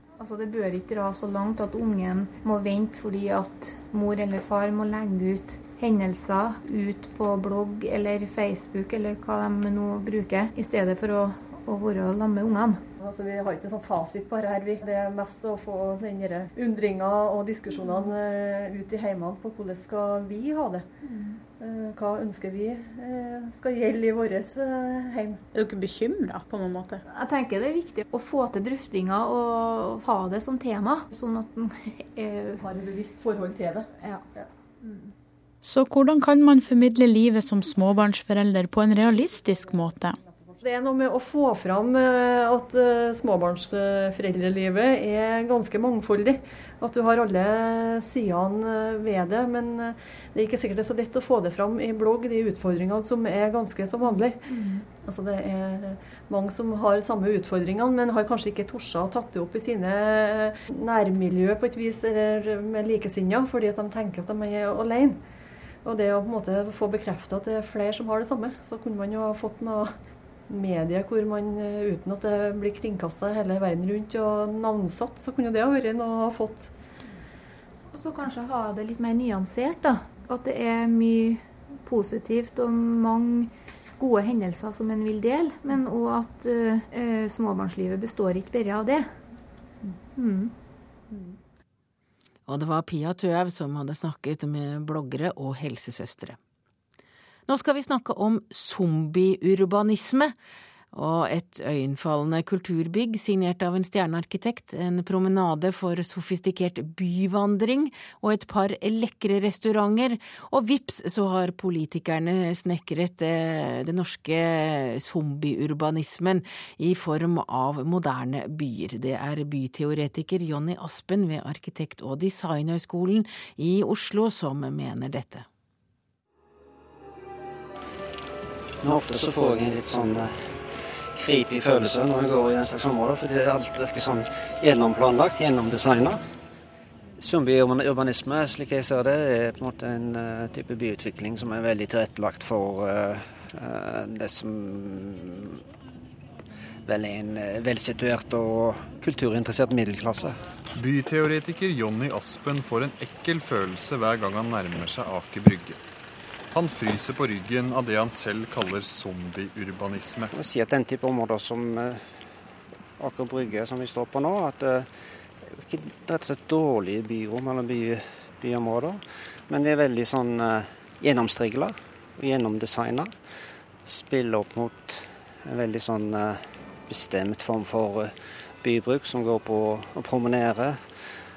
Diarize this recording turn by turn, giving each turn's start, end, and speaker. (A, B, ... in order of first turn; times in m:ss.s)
0:00.2-0:12.8 A
0:13.0-0:20.8 B
0:21.0-0:21.4 A
0:21.6-0:25.4 B
0:25.5-0:27.0 C
0:27.1-0:32.6 A
0:32.6-0:33.9 B
0:34.8-0:35.1 A
0:35.6-0:40.2 C
0:40.6-0:54.4 B
0:54.1-0:54.8 A
0:55.0-1:05.2 B
1:05.8-1:09.9 B
1:10.5-1:16.7 B
1:17.9-1:29.1 A
1:30.2-1:30.5 A
1:32.5-1:36.4 D
1:37.5-1:40.3 D
1:40.9-2:05.4 D
2:08.8-2:10.5 E
2:11.0-2:16.2 E
2:17.2-2:25.6 E
2:26.8-2:30.4 E
2:30.8-2:35.8 F
2:36.5-2:40.3 F
2:40.3-2:42.0 E
2:43.0-2:44.9 E
2:45.6-2:53.1 E
2:53.9-2:58.1 E
2:58.6-3:00.8 E